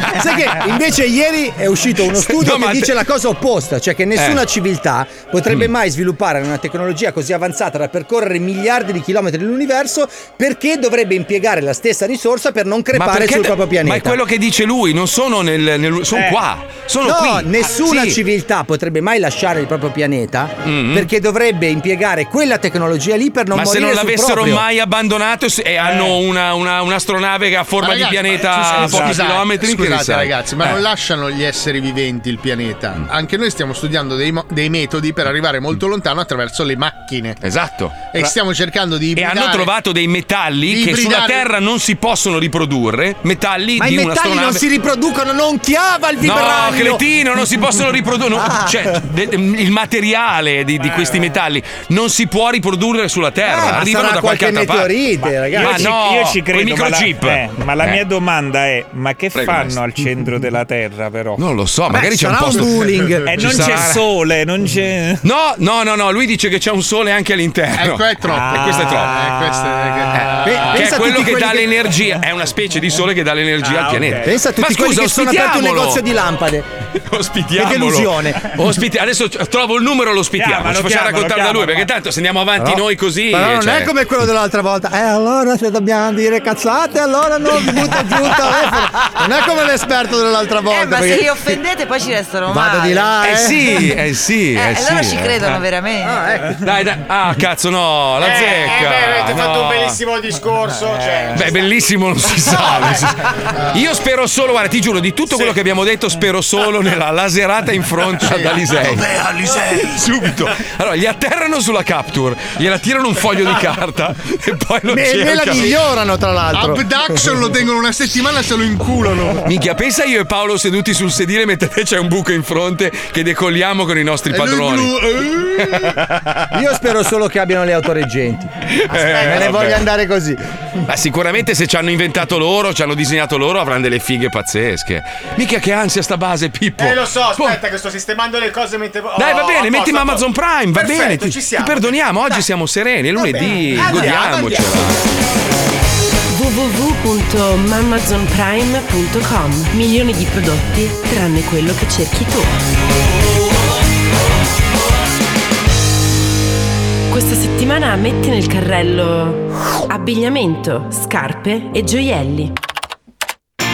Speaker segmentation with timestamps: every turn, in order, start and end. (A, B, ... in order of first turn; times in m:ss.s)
0:00.1-0:14.2 A
0:02.1-0:03.0 B
0:04.1-0:04.4 B
0:12.9-0:18.2 B
0:17.0-0:24.6 A
0:20.6-0:21.1 B
0:23.5-0:30.8 B
0:25.8-0:26.2 C
0:27.8-0:37.4 D
0:28.8-0:29.1 C
0:37.4-0:38.0 B
0:38.1-0:39.7 D
0:39.2-0:44.6 B
0:40.7-0:41.4 D
0:43.8-0:47.0 A
0:46.2-0:55.0 B
0:48.3-0:49.0 A
0:50.8-0:51.3 C
0:53.4-0:56.0 A
0:55.2-1:01.4 C
0:55.5-0:58.0 B
0:59.3-0:59.8 B
1:01.4-1:04.0 B
1:01.9-1:03.8 A
1:03.2-1:05.2 C
1:05.2-1:09.2 B
1:07.7-1:10.4 D
1:08.3-1:10.7 C
1:10.4-1:11.7 A
1:10.4-1:16.0 B
1:13.6-1:14.3 C
1:14.2-1:16.7 A
1:17.0-1:23.9 B
1:17.6-1:18.5 A
1:20.4-1:21.9 C
1:22.6-1:31.4 A
1:30.7-1:33.2 E
1:32.5-1:33.9 A
1:33.2-1:35.6 B
1:34.5-1:36.2 E
1:36.0-1:36.7 A
1:36.6-1:40.0 B
1:38.2-1:41.6 F
1:41.3-1:55.7 B
1:42.5-1:43.1 F
1:48.2-1:48.6 D
1:48.8-1:50.1 F
1:54.9-1:57.2 A
1:56.5-1:59.4 D
1:59.4-2:04.9 B
2:04.3-2:05.9 D
2:05.6-2:06.5 B
2:06.5-2:10.4 A
2:08.7-2:09.9 B
2:09.0-2:09.5 F
2:10.9-2:17.6 B
2:16.8-2:22.4 F
2:19.1-2:25.0 B
2:23.2-2:24.6 A
2:23.2-2:24.6 F
2:26.3-2:32.5 G
2:37.1-2:42.5 G